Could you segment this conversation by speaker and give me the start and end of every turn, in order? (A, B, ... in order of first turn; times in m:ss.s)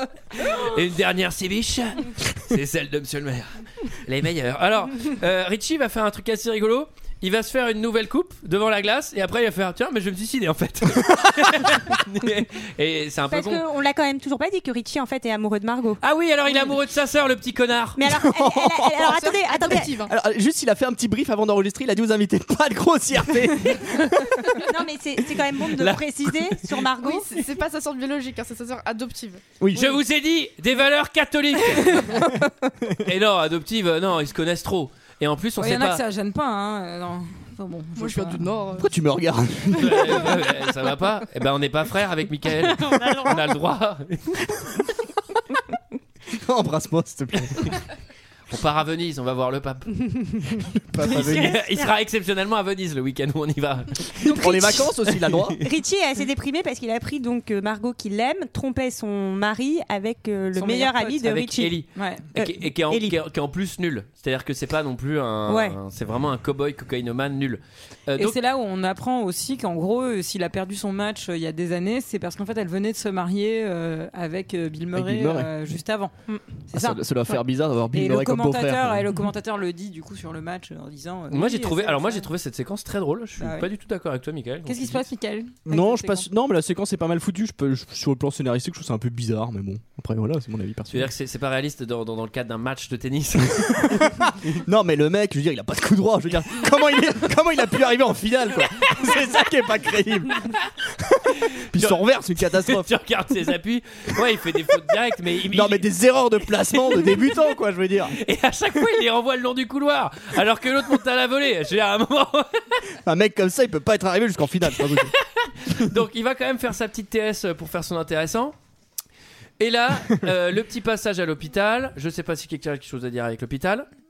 0:00.4-0:13.6 A
0:13.3-0:16.0 B
0:16.0-0:18.0 A
0:18.0-0:20.0 B
0:18.1-0:19.2 C
0:19.1-0:20.1 D
0:20.1-0:24.6 C
0:24.7-0:27.3 B
0:25.8-0:26.9 A
0:27.0-0:29.4 D
0:29.6-0:30.0 C
0:29.8-0:32.2 A
0:33.0-0:36.0 A
0:35.6-0:38.5 E
0:38.0-0:38.9 D
0:38.8-0:40.3 C
0:39.7-0:44.5 A
0:42.7-0:43.4 B
0:46.3-0:47.8 C
0:48.5-0:50.0 A
0:50.1-0:51.9 B
0:50.9-0:51.6 C
0:51.0-0:55.6 A
0:54.2-0:54.8 B
0:54.3-0:55.6 C
0:55.6-1:03.2 B
1:00.6-1:01.2 E
1:01.0-1:08.4 A
1:02.0-1:02.3 E
1:05.5-1:05.8 B
1:08.2-1:16.2 E
1:14.9-1:15.8 C
1:16.3-1:16.6 B
1:16.7-1:17.0 E
1:16.7-1:19.2 C
1:17.9-1:22.3 E
1:21.3-1:25.1 A
1:23.4-1:23.7 E
1:24.7-1:26.3 E
1:25.7-1:31.1 C
1:30.9-1:34.6 A
1:33.9-1:42.9 C
1:41.7-1:45.9 A
1:45.5-1:48.2 C
1:48.2-1:52.8 A
1:53.0-1:55.2 C
1:54.8-1:58.6 A
1:59.6-2:03.9 A